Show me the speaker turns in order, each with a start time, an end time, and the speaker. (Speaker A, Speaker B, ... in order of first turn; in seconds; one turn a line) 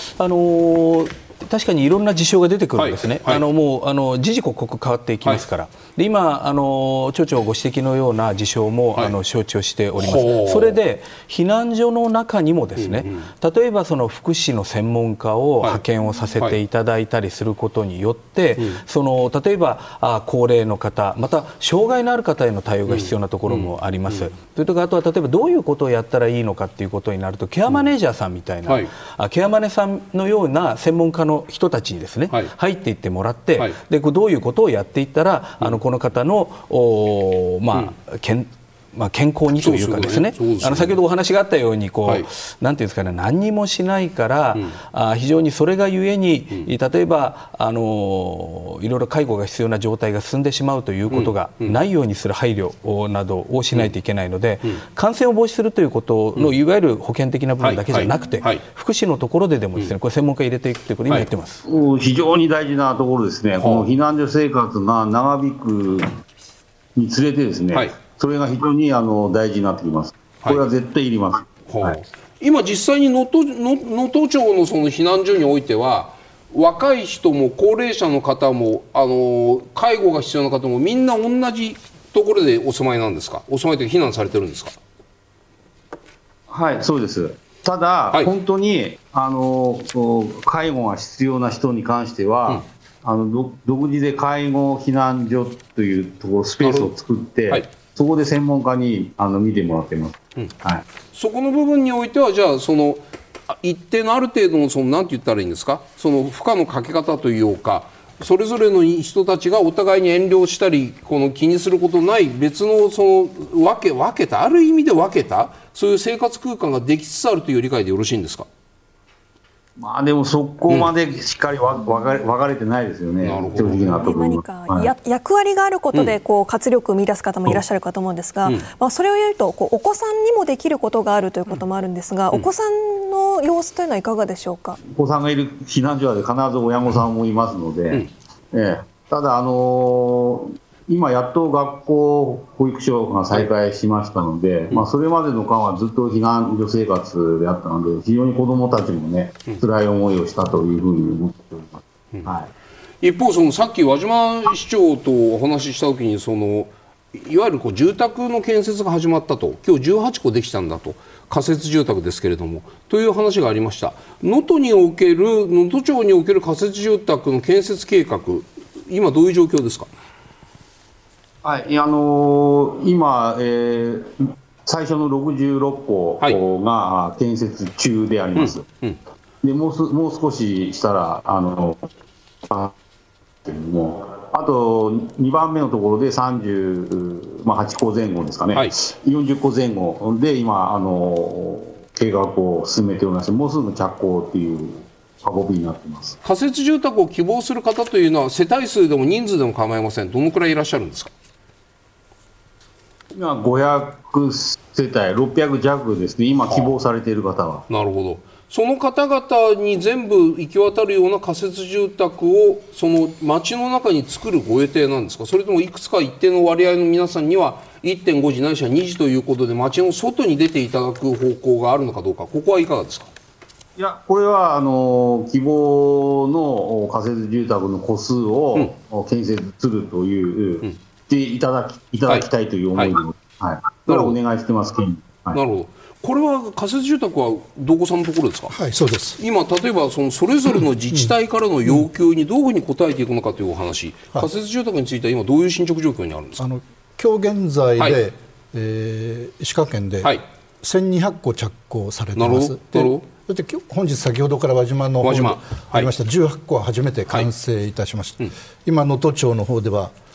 Speaker A: 0.2-61.6
Speaker B: 2.8-3.4
Speaker B: 10.0-10.8
Speaker B: 12.8-13.3
Speaker B: 22.9-24.3
Speaker B: 28.7-28.9
Speaker B: 39.6-41.0
Speaker B: 51.1-51.8
Speaker B: 57.6-58.6
Speaker C: 61.7-66.2
Speaker B: 63.6-63.9
Speaker C: 67.0-72.0
Speaker B: 71.7-84.8
Speaker C: 86.5-100.8
Speaker B: 96.6-96.9
Speaker B: 101.1-118.5
Speaker C: 119.8-124.9
Speaker B: 123.2-124.1
Speaker D: 123.8-134.8
Speaker C: 134.8-152.5
Speaker B: 153.0-169.9
Speaker C: 171.4-178.7
Speaker B: 178.3-179.0
Speaker C: 179.4-181.9
Speaker C: 182.5-182.8
Speaker C: 183.4-196.2
Speaker B: 196.2-201.1
Speaker C: 203.1-207.6
Speaker B: 206.5-206.8
Speaker B: 207.7-223.1
Speaker C: 223.8-235.4
Speaker B: 232.1-233.0
Speaker B: 233.9-234.2
Speaker B: 235.3-238.6
Speaker E: 238.5-239.2
Speaker B: 239.2-246.4
Speaker E: 246.4-259.9
Speaker B: 252.2-253.1
Speaker B: 255.0-255.9